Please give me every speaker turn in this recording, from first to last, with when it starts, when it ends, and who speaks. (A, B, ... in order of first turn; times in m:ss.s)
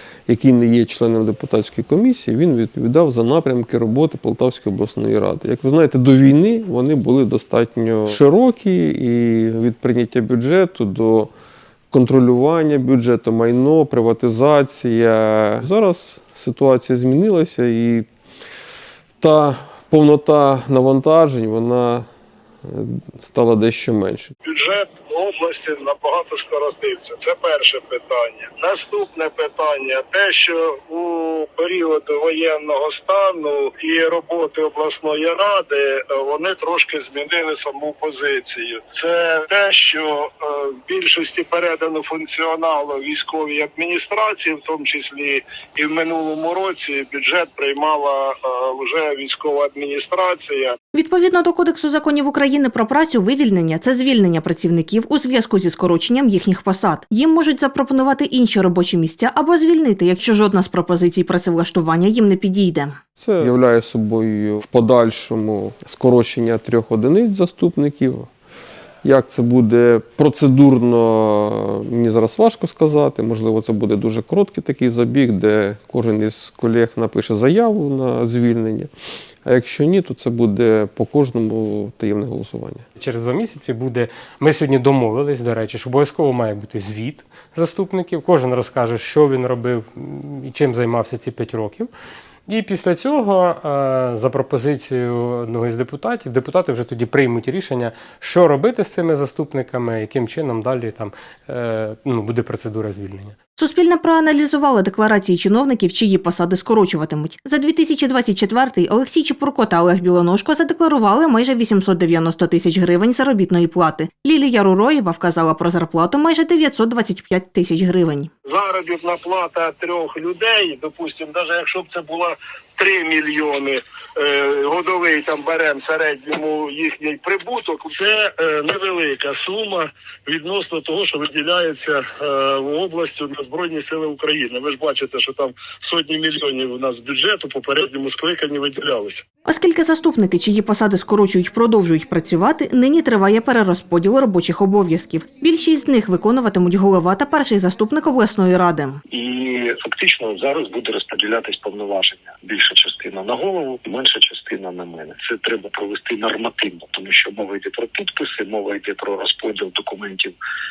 0:00.3-0:11.3 A
0:11.9-0:18.1 A
0:19.2-0:22.1 A
0:22.6-0:24.3 A
0:24.4-0:50.8 B
0:50.9-1:03.0 C
1:03.2-1:08.3 A
1:09.0-1:18.9 A
1:19.4-1:22.8 A
1:23.0-1:31.9 D
1:32.5-1:43.4 D
1:43.6-1:58.3 C
1:58.4-2:19.2 B
2:19.4-2:29.0 C
2:29.1-2:40.3 E